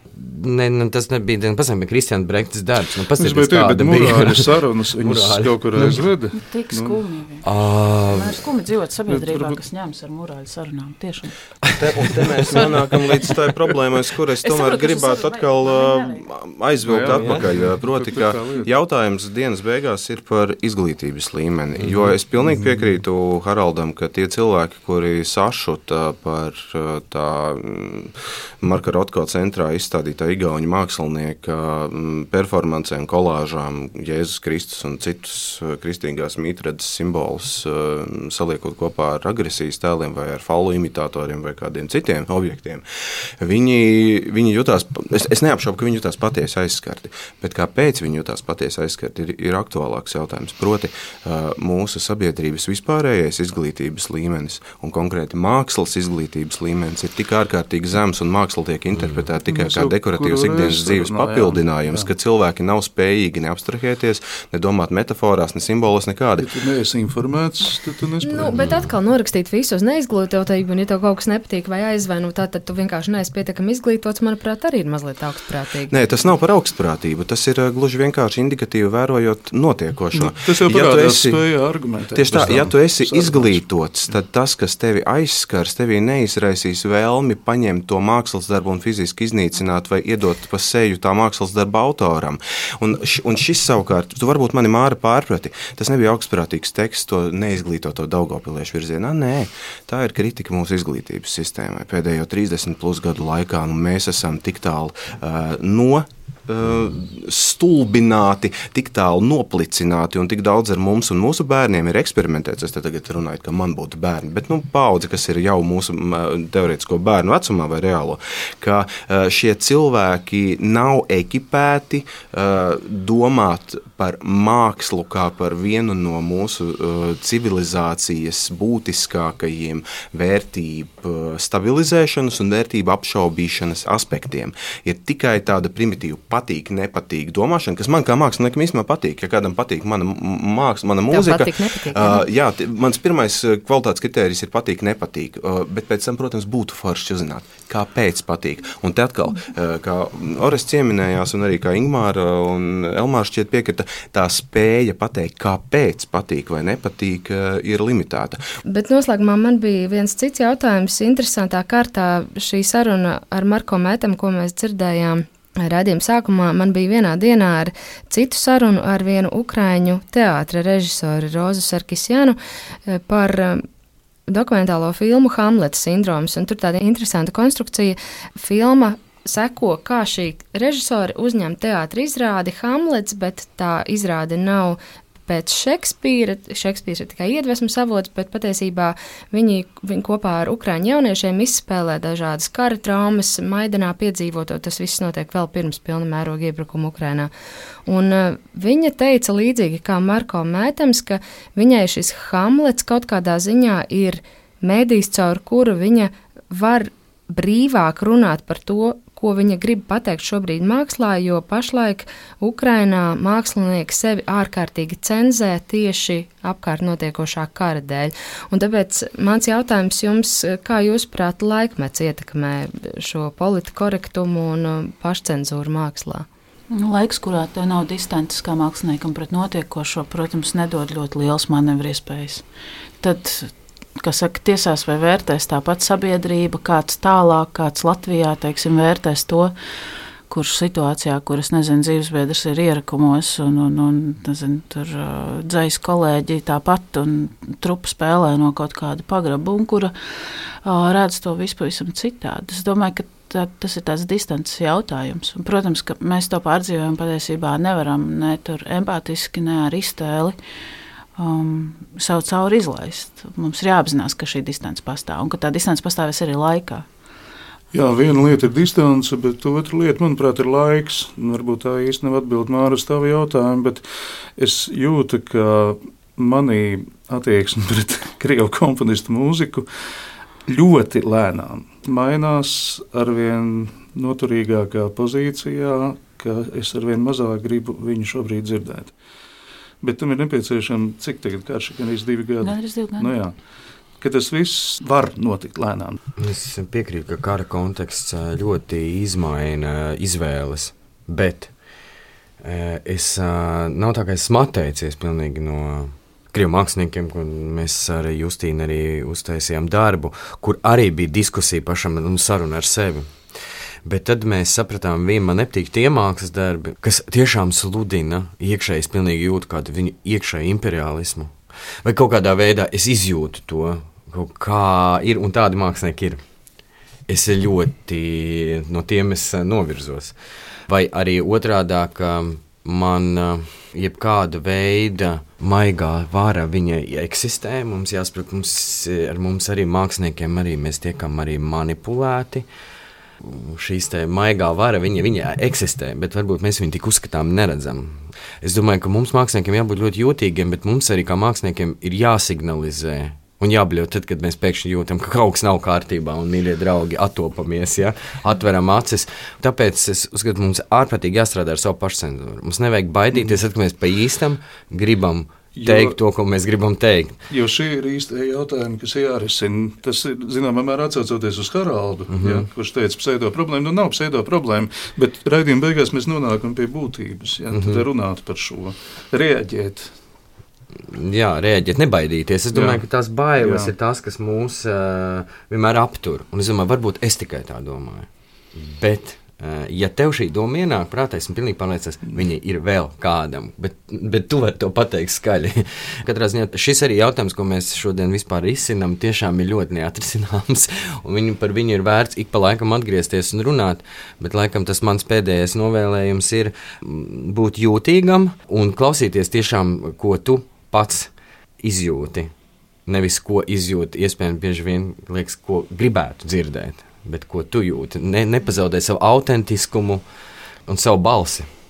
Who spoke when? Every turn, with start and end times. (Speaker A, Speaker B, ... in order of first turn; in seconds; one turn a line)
Speaker A: 0.1-6.1
Speaker B: 3.2-7.0
Speaker C: 6.3-7.5
Speaker A: 7.4-8.4
Speaker C: 8.1-11.3
Speaker B: 9.1-9.6
Speaker A: 11.6-13.0
Speaker D: 11.8-42.9
Speaker C: 12.5-13.3
Speaker C: 14.4-16.3
Speaker B: 16.8-18.7
Speaker B: 21.9-23.0
Speaker D: 43.4-66.5
Speaker A: 59.0-59.3
Speaker B: 59.4-62.1
Speaker B: 66.4-68.9
Speaker E: 68.2-76.0
Speaker A: 68.6-68.8
Speaker D: 75.9-81.5
Speaker B: 80.1-83.7
Speaker D: 82.1-158.4
Speaker E: 141.1-142.2
Speaker E: 158.7-173.7
Speaker E: 174.3-197.3
Speaker E: 197.9-226.3
Speaker C: 226.7-232.4
Speaker C: 233.0-239.5
Speaker C: 240.3-260.4
Speaker C: 261.2-266.9
Speaker B: 267.7-279.7
Speaker B: 280.5-288.9
Speaker B: 289.8-293.4
Speaker C: 292.4-293.1
Speaker B: 294.0-296.0
Speaker A: 296.2-301.5
Speaker A: 302.4-313.1
Speaker A: 313.8-326.2
Speaker A: 327.1-330.1
Speaker A: 330.7-342.5
Speaker A: 343.2-367.2
Speaker B: 363.1-363.4
Speaker B: 365.5-366.0
Speaker B: 367.3-380.0
Speaker A: 372.1-372.5
Speaker A: 377.5-377.8
Speaker A: 380.9-412.3
Speaker B: 382.5-382.9
Speaker B: 383.4-383.7
Speaker A: 412.9-420.0
Speaker A: 420.7-421.5